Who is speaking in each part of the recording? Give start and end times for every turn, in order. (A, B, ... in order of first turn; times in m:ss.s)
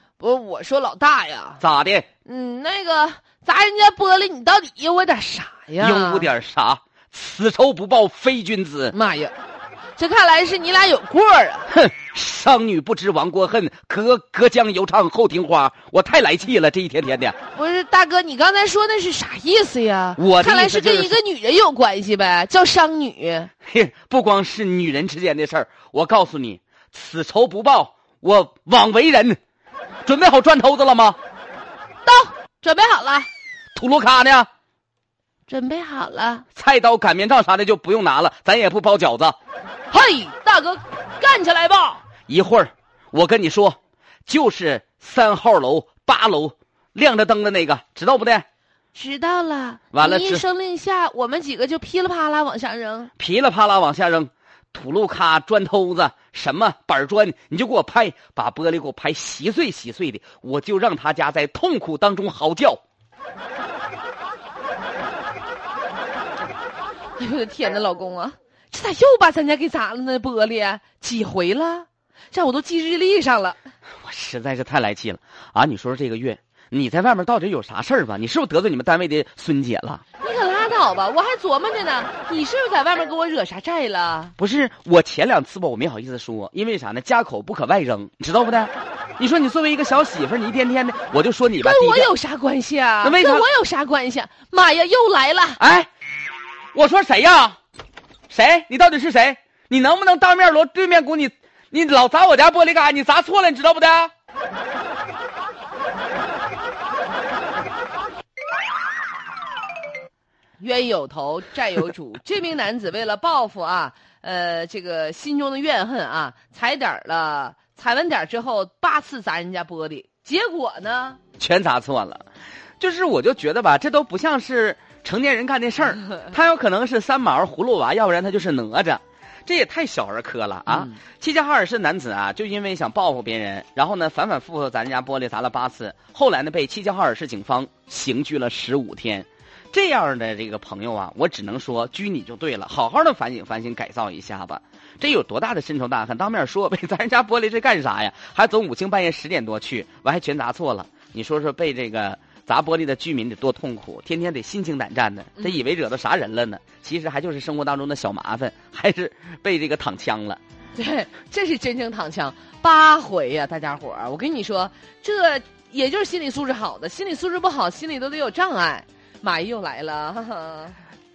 0:00.2-0:01.6 A
0:01.6-0:02.1 B
0:02.2-0:06.3 A
0:05.8-0:08.9 B
0:08.9-0:09.3 A
0:10.0-0:11.7 A
0:11.7-0:17.4 B
0:17.5-0:23.5 A
0:20.2-0:21.2 B
0:23.6-0:29.4 B
0:30.0-0:31.2 B
0:32.0-0:33.3 A
0:33.7-0:34.5 B
0:35.5-0:36.4 A
0:36.5-0:39.4 B
0:39.9-0:42.0 A
0:42.3-0:48.4 B
0:48.9-0:53.1 A
0:49.9-0:50.4 B
0:53.2-1:02.8 B
1:07.2-1:13.6 A
1:14.0-1:20.0 B
1:20.2-1:24.3 A
1:24.4-1:32.1 B
1:31.6-1:35.6 A
1:33.0-1:33.4 B
1:35.6-1:35.9 B
1:36.7-1:37.6 B
1:38.3-1:44.1 B
1:50.6-2:01.2 A
2:01.4-2:02.2 B
2:02.8-2:40.4 B
2:40.8-2:50.8 A